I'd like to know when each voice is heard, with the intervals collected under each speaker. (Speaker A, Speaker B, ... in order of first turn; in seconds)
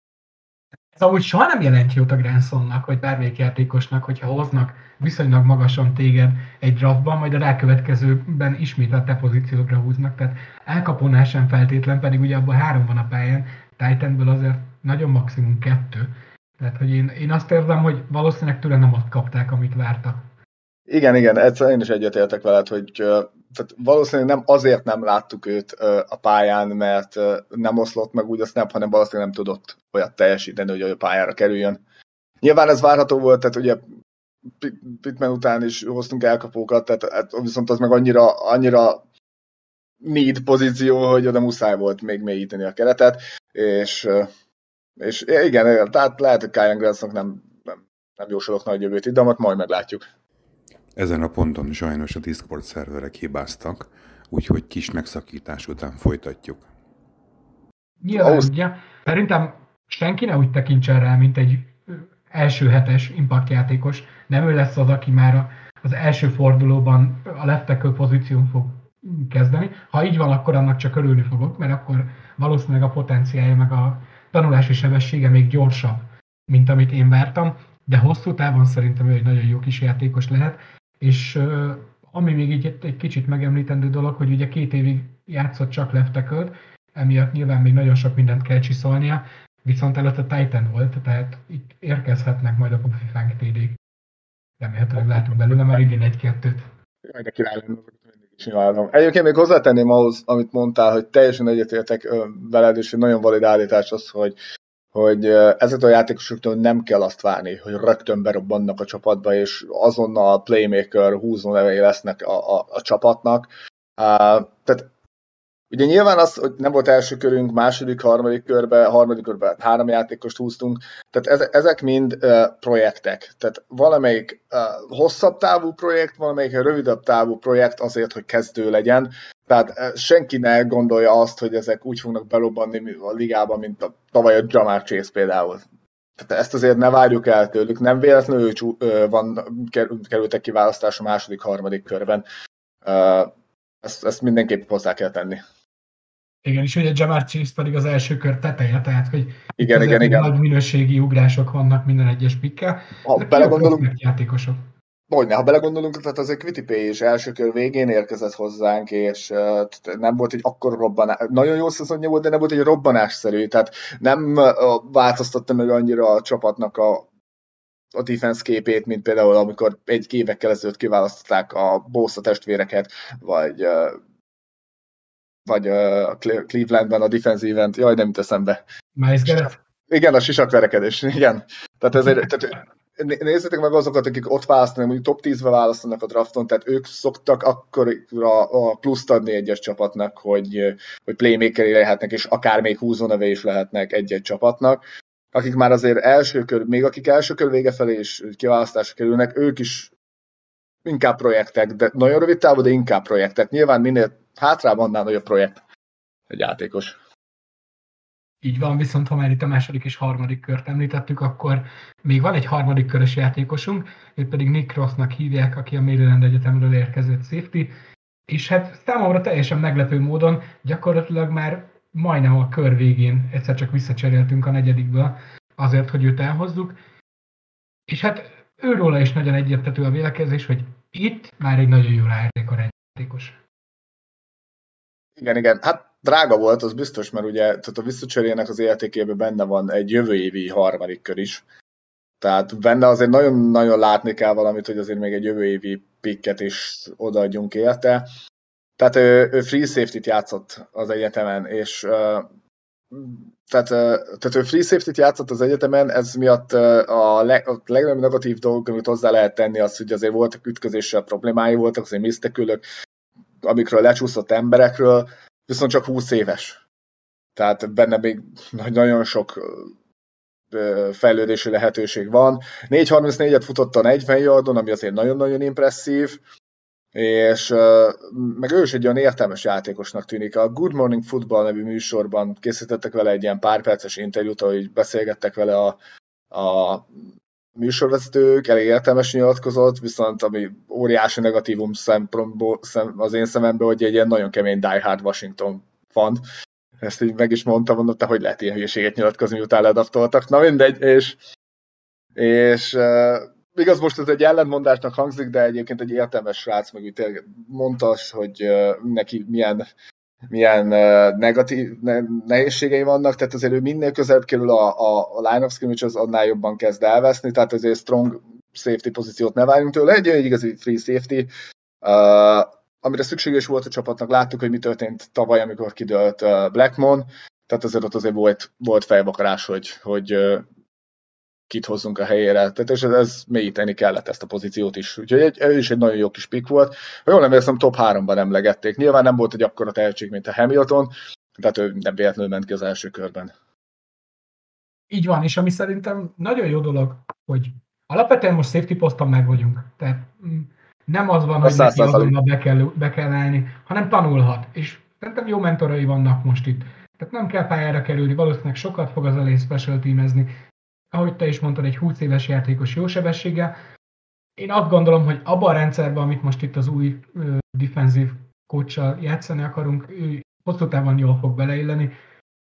Speaker A: 0.9-20.2, 58.0-93.8, 94.6-96.7, 146.4-154.6, 178.9-179.6, 208.4-217.7, 218.3-226.8, 227.9-233.4, 344.9-360.3, 360.9-363.5, 364.4-371.9
Speaker B: 20.9-31.8, 32.4-33.8, 34.6-39.0, 40.0-44.3, 45.0-50.0, 58.1-58.5, 97.0-104.4, 104.9-114.9, 115.7-135.6, 136.2-142.2, 142.8-145.4, 149.6-150.3, 153.0-153.9, 155.1-167.1, 167.9-174.0, 175.4-178.6, 179.2-194.8, 195.3-199.9, 200.8-205.6, 206.3-206.9, 235.2-241.4, 242.2-248.1, 248.8-252.3, 252.9-262.6, 263.4-266.6, 267.4-269.7, 270.5-276.2, 276.9-285.8, 286.3-286.9, 287.6-296.2, 296.8-301.2, 302.1-309.6, 310.3-321.3, 321.8-330.4, 331.5-343.3, 351.4-352.1
Speaker C: 51.0-56.7